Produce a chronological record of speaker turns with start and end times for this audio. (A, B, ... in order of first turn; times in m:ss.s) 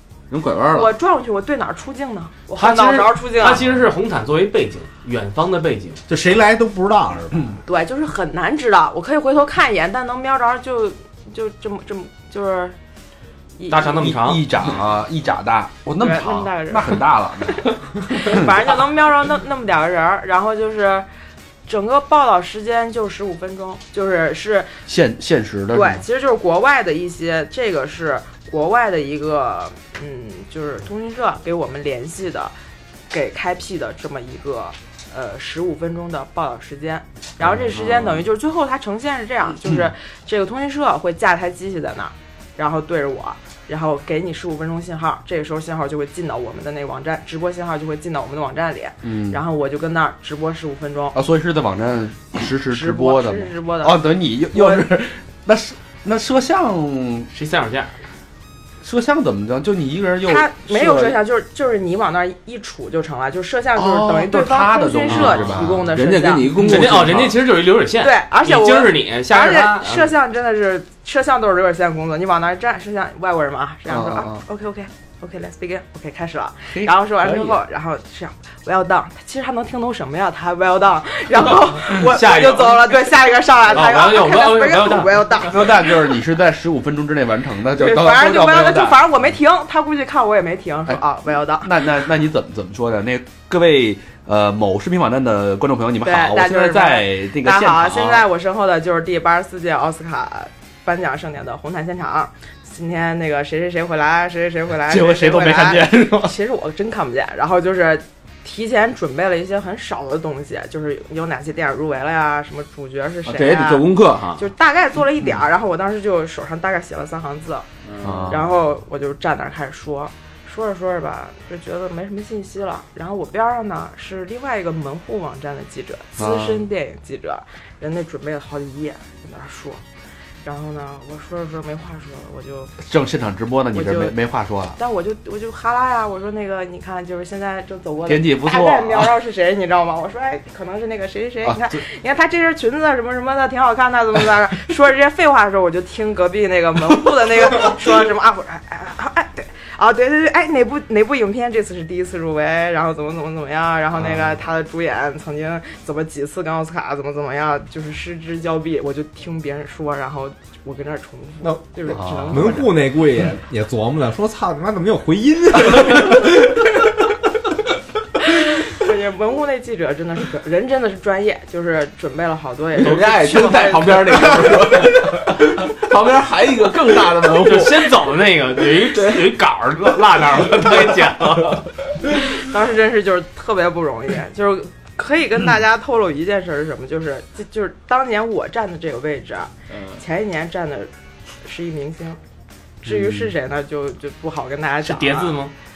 0:00.3-0:00.9 A
0:00.7-0:03.7 B
0:02.5-0:06.0 C
0:06.1-0:07.6 D
0:07.6-0:12.8 B
0:13.6-0:14.2 B
0:13.7-0:14.5 C
0:14.0-0:17.7 E
0:16.0-0:21.1 B
0:18.2-0:18.5 E
0:21.7-0:24.8 B
0:24.9-0:26.0 E
0:25.7-0:32.6 B
0:33.1-0:51.2 B
0:37.6-0:38.2 A
0:49.0-0:49.4 E
0:51.1-0:57.3 E
0:52.7-0:54.9 B
0:57.3-0:58.0 C
0:58.8-1:01.2 E
1:00.2-1:06.7 B
1:03.7-1:05.9 E
1:05.1-1:07.4 A
1:06.5-1:10.2 C
1:08.0-1:26.1 B
1:13.9-1:14.4 E
1:16.7-1:17.6 E
1:21.9-1:22.8 C
1:23.7-1:25.3 C
1:25.5-1:29.2 E
1:27.7-1:31.7 B
1:31.6-1:38.3 E
1:36.0-1:57.7 B
1:44.9-1:46.0 E
1:53.2-1:54.4 A
1:57.9-1:58.4 A
1:58.0-1:58.5 E
1:58.3-2:09.8 B
2:06.2-2:06.7 E
2:10.4-2:12.8 B
2:12.8-2:14.8 E
2:13.7-2:14.2 B
2:14.8-2:42.9 B
2:18.0-2:19.2 E
2:21.4-2:21.8 E
2:41.4-2:46.6 D
2:41.9-2:42.5 E
2:48.7-2:54.5 B
2:52.8-2:58.1 A
2:57.3-3:01.7 C
2:58.8-2:59.4 A
3:02.2-3:12.2 B
3:12.8-3:15.5 B
3:14.8-3:15.5 C